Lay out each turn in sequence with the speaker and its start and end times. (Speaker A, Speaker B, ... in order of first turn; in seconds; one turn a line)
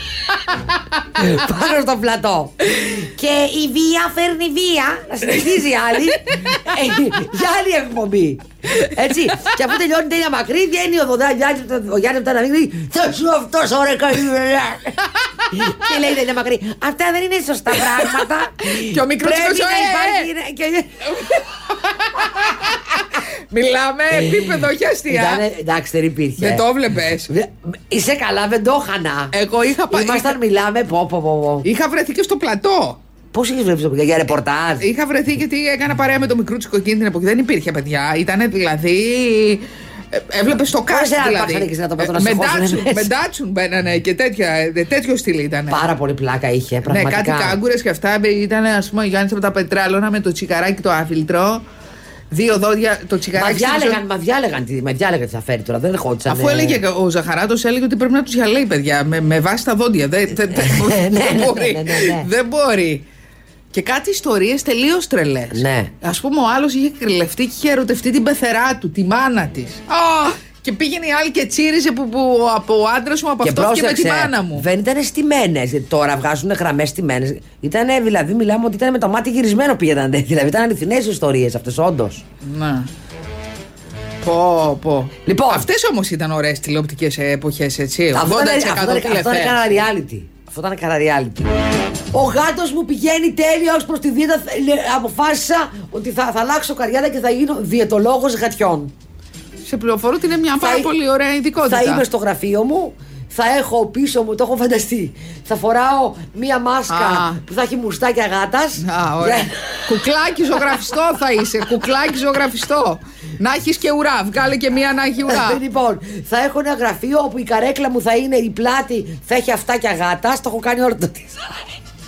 Speaker A: 1.1-15.0
Speaker B: 6.3-6.7
Speaker B: 15.4-15.8
Speaker A: 15.5-21.2
Speaker B: 18.7-20.3
Speaker B: 21.0-25.4
Speaker A: 24.1-26.6
Speaker B: 26.4-27.3
Speaker A: 27.3-29.3
Speaker B: 29.3-30.4
Speaker A: 29.9-31.7
Speaker B: 31.6-33.0
Speaker A: 33.3-34.9
Speaker B: 34.8-45.8
Speaker A: 40.9-43.1
Speaker A: 45.7-47.6
Speaker B: 46.9-51.6
Speaker B: 52.3-54.0
Speaker A: 53.4-56.8
Speaker B: 56.3-63.0
Speaker A: 60.5-62.3
Speaker B: 63.7-74.7
Speaker A: 65.5-65.9
Speaker A: 73.4-82.2
Speaker B: 82.4-82.9
Speaker B: 84.2-89.8
Speaker A: 85.2-85.7
Speaker A: 88.1-91.5
Speaker A: 92.1-98.9
Speaker B: 99.7-102.0
Speaker A: 100.6-100.9
Speaker A: 101.6-110.0
Speaker B: 106.9-107.4
Speaker B: 108.8-115.6
Speaker A: 110.6-110.8
Speaker A: 115.3-121.8